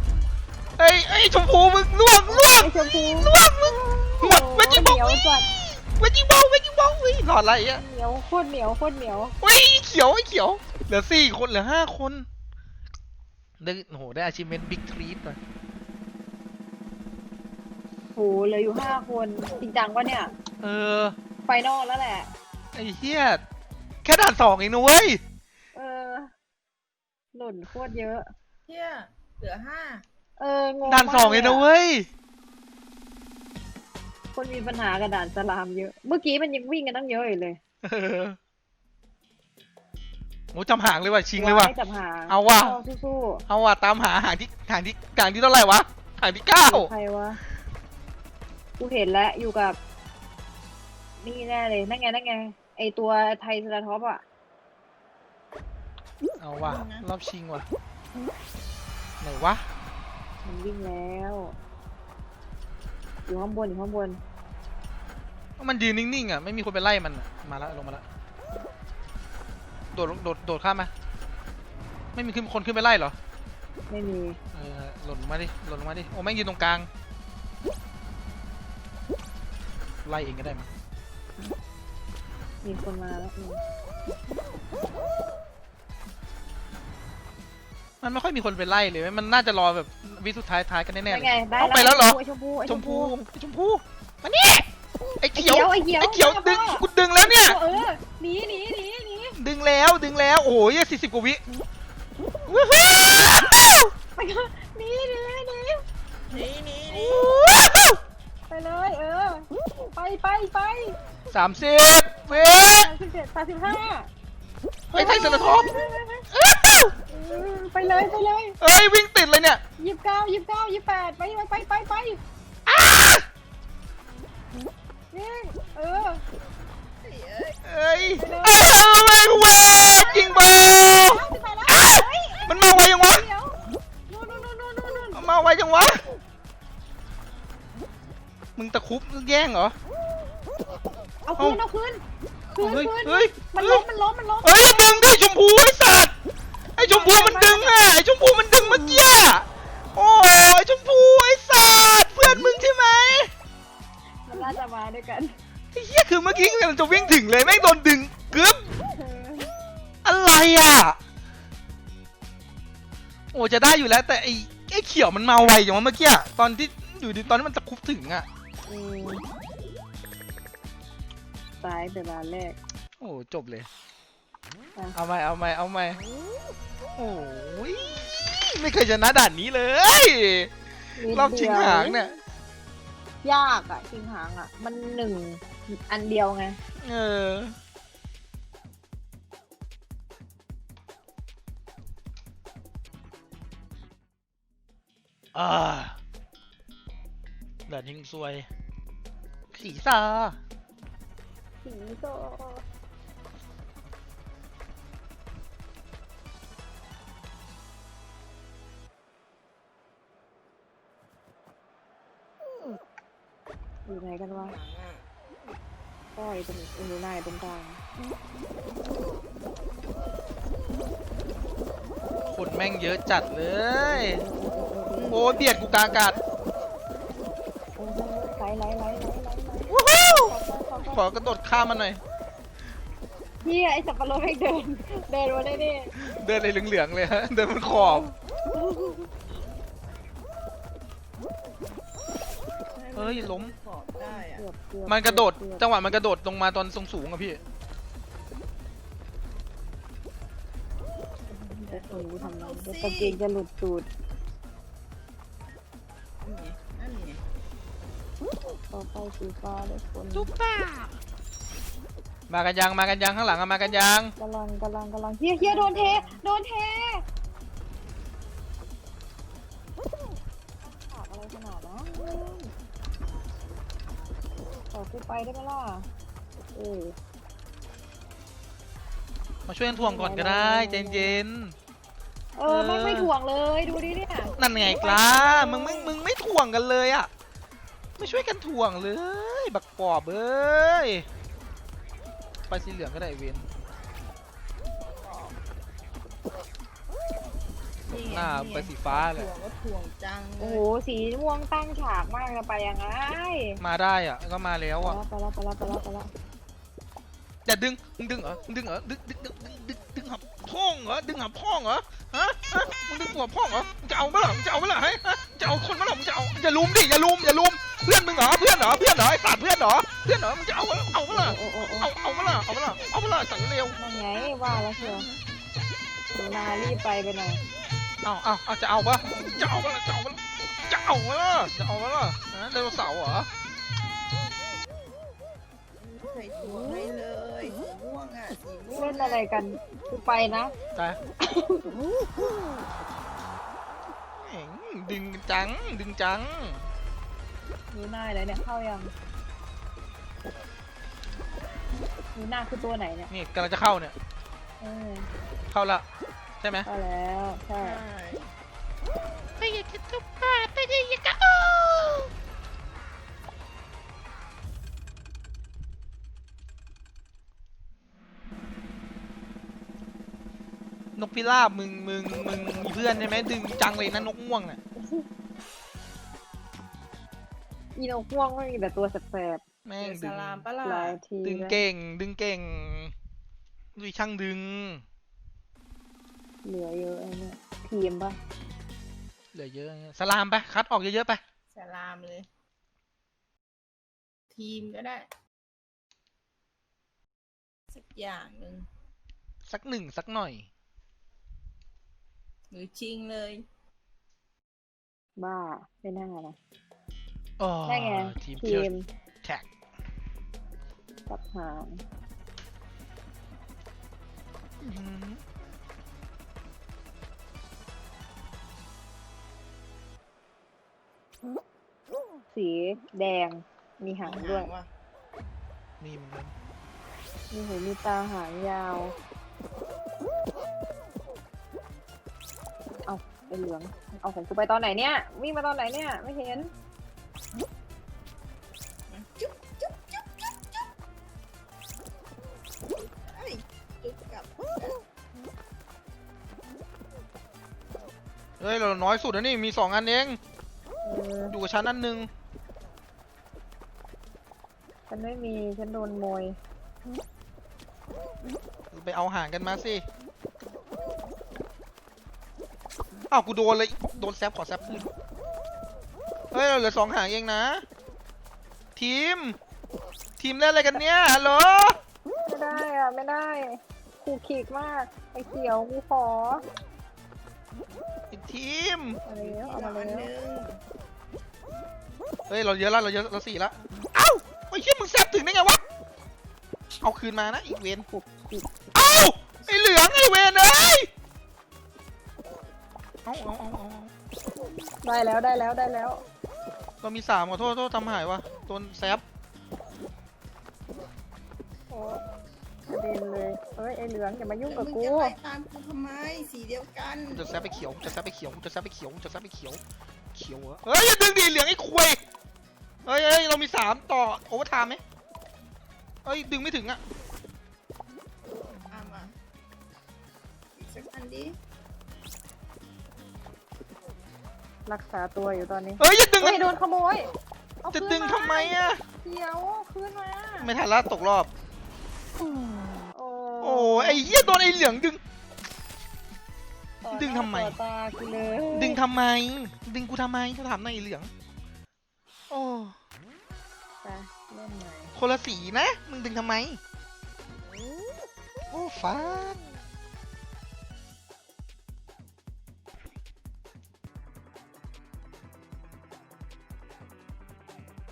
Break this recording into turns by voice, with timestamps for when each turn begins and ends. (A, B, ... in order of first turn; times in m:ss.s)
0:00.8-0:07.8 A
0:02.3-0:05.4 B
0:07.7-0:09.4 B
0:09.4-0:12.2 A
0:13.6-0:15.4 A
0:18.1-0:20.3 B
0:20.6-0:21.1 A
0:21.4-0:22.3 B
0:22.7-0:23.4 A
0:24.0-0:25.2 A
0:25.7-0:26.3 B
0:27.3-0:28.3 B
0:28.7-0:30.0 C
0:30.4-0:31.7 B
0:30.8-0:32.1 A
0:34.3-0:37.6 B
0:37.8-0:38.4 A
0:40.5-0:41.7 A
0:41.4-0:43.4 B
0:42.3-0:42.8 A
0:43.5-0:46.9 A
0:46.6-0:47.4 B
0:48.8-0:49.8 B
0:51.2-0:54.2 B
0:56.4-0:57.6 A
0:56.6-0:57.0 C
0:59.2-0:59.6 A
1:00.4-1:01.6 B
1:03.3-1:04.2 B
1:05.6-1:08.0 A
1:09.9-1:10.9 A
1:12.1-1:13.1 A
1:13.9-1:14.4 B
1:14.5-1:16.9 A
1:20.0-1:20.7 A
1:22.6-1:23.6 B
1:28.0-1:34.7 A
1:31.1-1:33.1 B
1:35.2-1:37.6 A
1:35.3-1:39.4 B
1:39.4-1:41.4 A
1:42.5-1:43.9 A
1:44.2-1:45.8 B
1:46.3-1:47.4 C
1:46.9-1:48.0 A
1:48.5-1:51.0 B
1:51.3-1:52.9 A
1:52.3-1:54.1 B
1:54.9-1:55.7 A
1:54.9-1:56.2 B
1:56.3-1:56.9 A
1:57.1-1:58.6 B
1:58.6-1:59.6 A
1:59.8-2:02.2 B
2:02.6-2:03.3 A
2:05.1-2:06.2 B
2:07.0-2:08.0 C
2:07.6-2:13.2 A
2:08.2-2:13.6 B
2:14.1-2:15.3 B
2:15.1-2:16.0 A
2:18.6-2:19.7 A
2:21.2-2:25.1 B
2:22.6-2:23.8 A
2:24.4-2:26.1 A
2:26.8-2:33.3 A
2:26.8-2:27.7 B
2:34.3-2:35.4 B
2:35.7-2:38.6 A
2:38.9-2:39.5 B
2:40.0-2:41.0 A
2:43.3-2:48.3 A
2:48.7-2:49.2 B
2:51.6-2:52.6 B
2:53.0-2:53.7 A
2:54.9-2:56.0 A
2:57.0-3:00.5 A
3:01.0-3:02.1 B
3:01.1-3:02.1 A
3:03.2-3:06.6 B
3:06.8-3:07.5 A
3:15.3-3:16.0 A
3:17.7-3:18.5 A
3:19.5-3:20.4 A
3:21.6-3:22.6 B
3:33.8-3:34.6 B
3:34.3-3:35.0 C
3:36.1-3:37.8 B
3:42.3-3:44.2 A
3:43.8-3:45.7 B
3:44.9-3:46.2 C
3:45.1-3:46.2 A
3:47.8-3:51.0 B
3:49.7-3:52.0 A
3:53.4-3:55.9 B
3:56.0-3:58.1 A
3:57.6-3:59.1 B
4:02.7-4:04.4 C
4:02.9-4:03.5 A
4:04.1-4:05.9 B
4:04.8-4:07.4 A
4:11.3-4:13.2 C
4:11.7-4:13.9 B
4:16.2-4:17.2 C
4:18.7-4:20.3 B
4:20.1-4:20.9 A
4:22.3-4:24.1 A
4:24.2-4:27.0 B
4:25.4-4:26.2 C
4:30.6-4:32.5 B
4:34.7-4:35.9 B
4:36.5-4:37.0 B
4:39.5-4:41.6 A
4:39.7-4:41.2 B
4:42.4-4:45.9 B
4:42.5-4:43.1 A
4:44.4-4:47.1 A
4:48.0-4:51.0 A
4:52.5-4:53.4 A
4:55.0-4:55.4 C
4:57.9-5:00.6 C
4:58.0-4:59.3 A
5:00.4-5:03.6 B
5:03.6-5:05.0 A
5:04.8-5:06.1 B
5:07.4-5:23.8 A
5:21.1-5:21.9 B
5:23.8-5:25.1 B
5:24.8-5:25.0 A
5:26.1-5:27.4 B
5:28.0-5:33.3 A
5:29.1-5:29.4 B
5:35.8-5:39.2 C
5:38.7-5:40.5 B
5:41.2-5:41.7 B
5:44.2-5:46.6 A
5:47.7-5:48.9 B
5:52.2-5:53.1 B
5:53.1-5:53.9 A
5:54.6-5:55.1 B
5:55.5-5:55.8 A
5:56.4-5:56.6 A
5:56.6-5:57.8 B
5:57.6-5:58.3 C
5:59.4-6:02.1 A
6:11.0-6:14.6 A
6:14.8-6:15.0 B
6:17.8-6:19.4 B
6:19.6-6:20.4 A
6:19.8-6:21.0 C
6:20.6-6:21.6 B
6:21.2-6:22.9 A
6:23.7-6:24.8 A
6:26.4-6:28.2 B
6:29.3-6:31.2 A
6:31.5-6:32.3 C
6:34.3-6:35.1 C
6:37.7-6:38.7 C
6:39.4-6:40.5 A
6:42.5-6:43.4 C
6:45.2-6:46.4 B
6:47.4-6:48.7 A
6:47.6-6:48.9 B
6:51.1-6:51.8 B
6:54.6-6:55.2 A
7:02.3-7:04.5 B
7:04.0-7:04.7 C
7:05.8-7:06.3 A
7:07.3-7:09.0 B
7:12.8-7:16.5 B
7:18.9-7:20.6 C
7:22.6-7:24.8 C
7:28.4-7:30.2 A
7:30.8-7:31.4 B
7:31.3-7:32.1 A
7:34.9-7:36.4 B
7:38.7-7:39.8 A
7:43.1-7:44.9 A
7:46.3-7:47.6 A
7:48.8-7:49.4 A
7:50.2-7:51.8 A
7:52.3-7:56.4 B
7:58.1-7:59.0 A
7:59.0-8:00.1 B
7:59.1-8:00.6 C
8:02.3-8:05.6 A
8:06.8-8:07.8 A
8:07.9-8:08.5 B
8:08.7-8:10.9 A
8:13.0-8:13.9 A
8:14.8-8:16.0 B
8:16.8-8:19.0 A
8:21.7-8:22.0 B
8:22.7-8:25.1 B
8:24.4-8:27.4 C
8:27.1-8:29.6 A
8:30.1-8:32.0 A
8:32.8-8:34.8 A
8:36.0-8:36.8 A
8:38.5-8:39.1 C
8:40.6-8:41.4 C
8:44.7-8:47.1 B
8:45.8-8:46.5 A
8:47.6-8:50.5 B
8:47.7-8:48.8 A
8:50.4-8:51.3 A
8:52.5-8:52.7 A
8:52.9-8:54.5 B
8:53.4-8:55.0 A
8:56.8-8:58.8 B
8:56.9-8:57.6 A
8:58.5-9:01.1 A
9:02.3-9:02.8 A
9:03.8-9:04.9 B
9:04.9-9:06.6 A
9:08.5-9:09.4 A